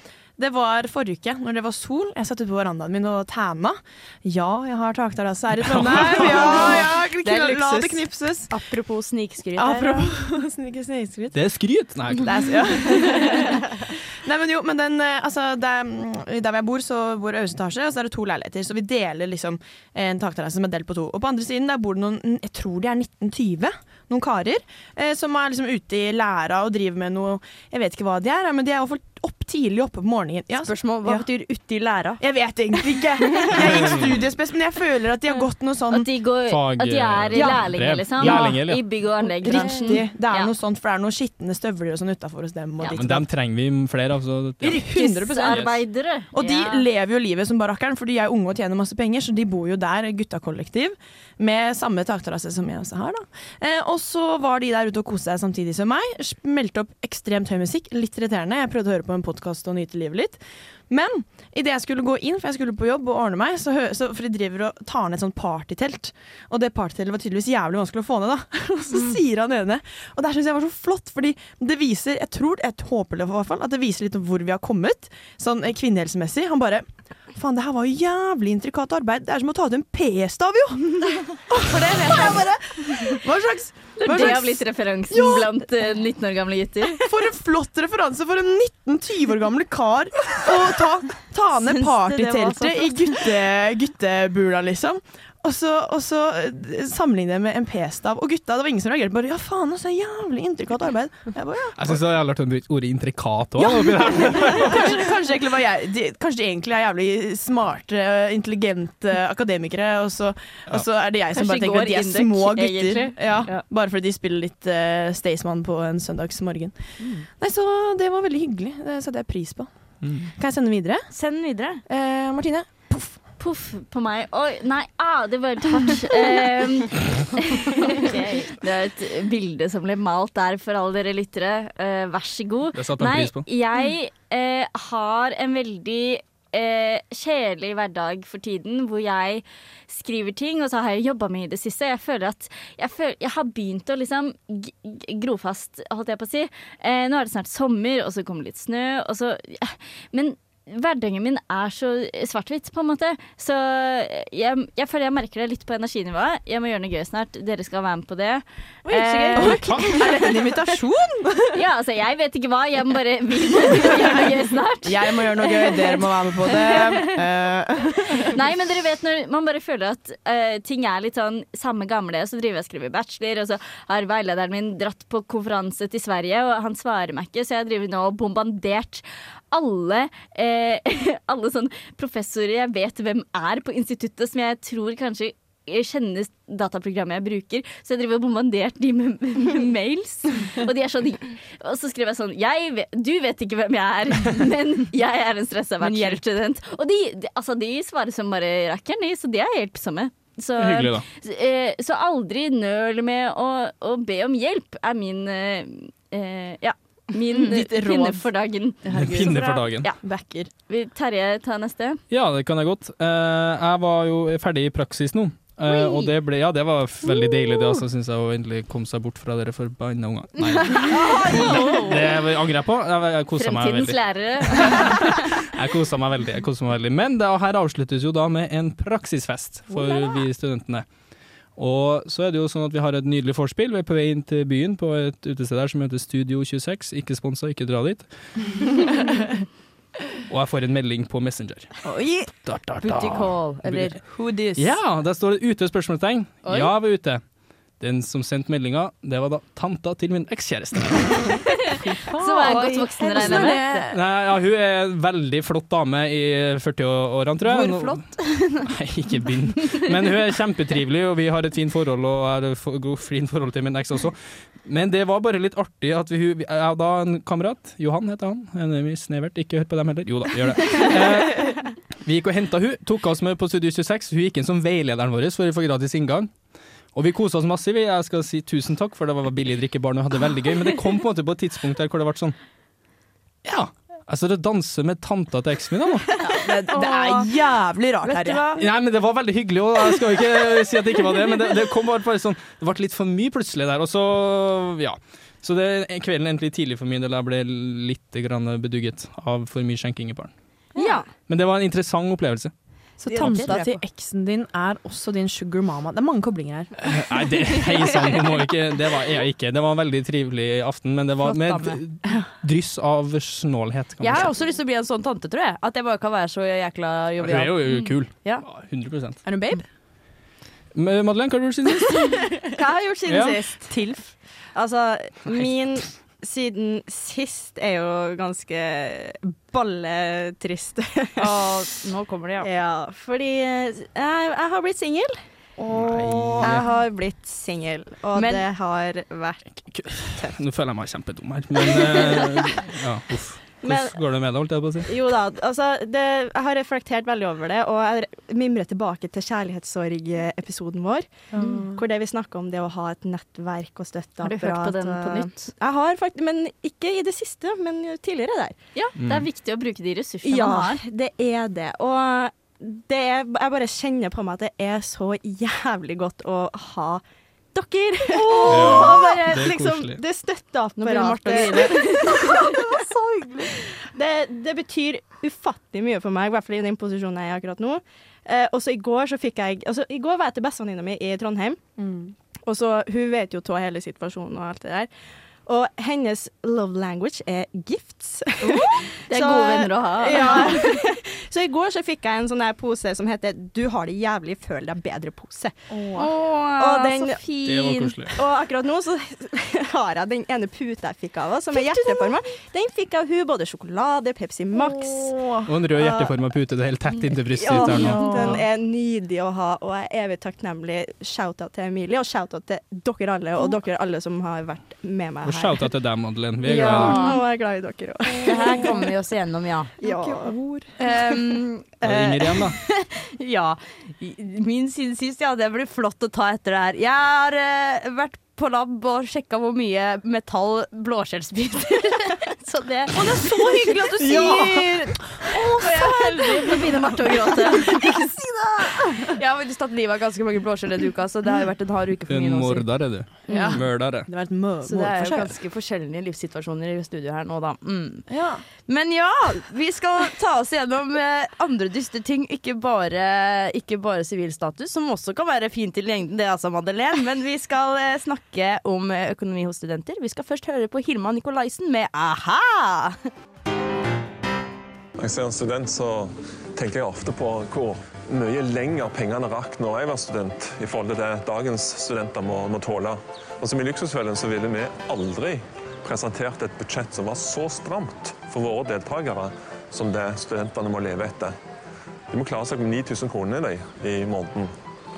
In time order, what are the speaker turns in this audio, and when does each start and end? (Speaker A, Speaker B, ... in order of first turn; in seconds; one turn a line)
Speaker A: 0.4-8.6
Speaker B: 5.6-6.4
Speaker C: 5.9-10.1
Speaker A: 9.6-11.4
Speaker B: 11.3-12.9
Speaker A: 12.0-31.3
Speaker C: 30.6-32.2
Speaker A: 32.2-36.1
Speaker B: 33.7-34.0
Speaker D: 35.9-40.5
Speaker B: 36.5-38.8
Speaker A: 37.3-43.3
Speaker B: 42.9-44.9
Speaker A: 44.6-45.7
Speaker D: 44.8-46.9
Speaker B: 45.4-45.7
Speaker A: 46.3-85.5
Speaker C: 81.6-83.2
Speaker D: 84.0-87.0
Speaker A: 87.0-102.0
Speaker C: 91.5-93.3
Speaker B: 101.8-104.9
Speaker A: 103.6-121.1
Speaker D: 111.3-113.6
Speaker B: 120.0-120.3
Speaker C: 121.1-121.8
Speaker A: 121.8-123.2
Speaker D: 123.4-160.2
Speaker B: 132.7-133.4
Speaker A: 158.8-161.6
Speaker B: 159.3-159.8
Speaker D: 161.5-167.0
Speaker A: 164.8-168.3
Speaker D: 168.3-208.8
Speaker C: 195.8-196.2
Speaker B: 200.6-201.0
Speaker A: 207.4-208.2
Speaker A: 208.8-210.5
Speaker B: 208.9-209.9
Speaker C: 208.9-209.6
Speaker D: 210.7-212.0
Speaker B: 212.1-225.0
Speaker C: 220.5-221.9
Speaker D: 223.4-225.0
Speaker B: 225.5-230.9
Speaker C: 229.8-230.1
Speaker B: 231.5-238.5
Speaker B: 240.3-241.8
Speaker A: 241.8-242.4
Speaker B: 242.4-243.9
Speaker C: 242.8-244.4
Speaker A: 244.1-244.7
Speaker B: 244.5-247.2
Speaker C: 246.4-246.7
Speaker B: 247.8-251.4
Speaker A: 251.8-254.0
Speaker D: 252.2-253.8
Speaker C: 252.2-253.5
Speaker B: 253.9-276.3
Speaker A: 257.4-258.7
Speaker B: 276.9-282.3
Speaker B: 283.4-286.1
Speaker A: 286.2-288.5
Speaker C: 286.7-287.3
Speaker C: 288.0-288.6
Speaker B: 288.6-300.3
Speaker C: 300.8-301.1
Speaker B: 301.3-302.5
Speaker A: 303.0-306.9
Speaker C: 303.1-303.8
Speaker B: 306.8-314.3
Speaker C: 311.2-311.8
Speaker C: 314.0-318.4
Speaker B: 317.2-319.2
Speaker A: 319.2-319.6
Speaker B: 320.7-322.3
Speaker E: 322.3-324.0
Speaker B: 323.1-323.4
Speaker A: 323.7-324.1
Speaker E: 324.5-331.4
Speaker B: 325.3-325.8
Speaker C: 331.2-332.5
Speaker E: 332.4-340.4
Speaker B: 335.7-336.6
Speaker C: 338.1-338.4
Speaker B: 339.5-344.9
Speaker E: 341.7-342.4
Speaker E: 343.6-358.6
Speaker A: 351.3-351.8
Speaker D: 351.4-351.6
Speaker D: 354.2-355.5
Speaker D: 358.7-360.8
Speaker B: 359.0-359.2
Speaker E: 360.2-372.6
Speaker B: 368.5-370.0
Speaker C: 370.8-372.1
Speaker A: 371.3-373.5
Speaker E: 373.8-381.6
Speaker A: 381.8-382.1
Speaker E: 382.4-384.9
Speaker E: 385.4-395.5
Speaker D: 389.1-390.5
Speaker A: 395.7-396.1
Speaker C: 395.9-398.1
Speaker E: 396.6-397.2
Speaker B: 397.4-398.1
Speaker E: 398.1-406.1
Speaker A: 401.6-402.0
Speaker A: 404.6-405.2
Speaker B: 405.4-408.4
Speaker E: 407.4-415.7
Speaker A: 407.7-408.4
Speaker B: 415.2-417.0
Speaker E: 416.4-418.7
Speaker C: 416.5-417.2
Speaker C: 418.2-419.8
Speaker A: 418.2-418.7
Speaker E: 419.8-420.4
Speaker A: 419.8-420.7
Speaker C: 420.8-435.0
Speaker B: 421.8-422.6
Speaker A: 432.9-436.7
Speaker B: 434.2-434.4
Speaker C: 435.5-442.7
Speaker D: 435.9-437.8
Speaker A: 437.7-438.1
Speaker B: 442.1-444.1
Speaker C: 443.3-443.6
Speaker A: 443.3-445.3
Speaker C: 444.6-448.1
Speaker A: 448.1-448.4
Speaker C: 448.6-463.0
Speaker F: 465.0-481.3
Speaker F: 482.1-484.5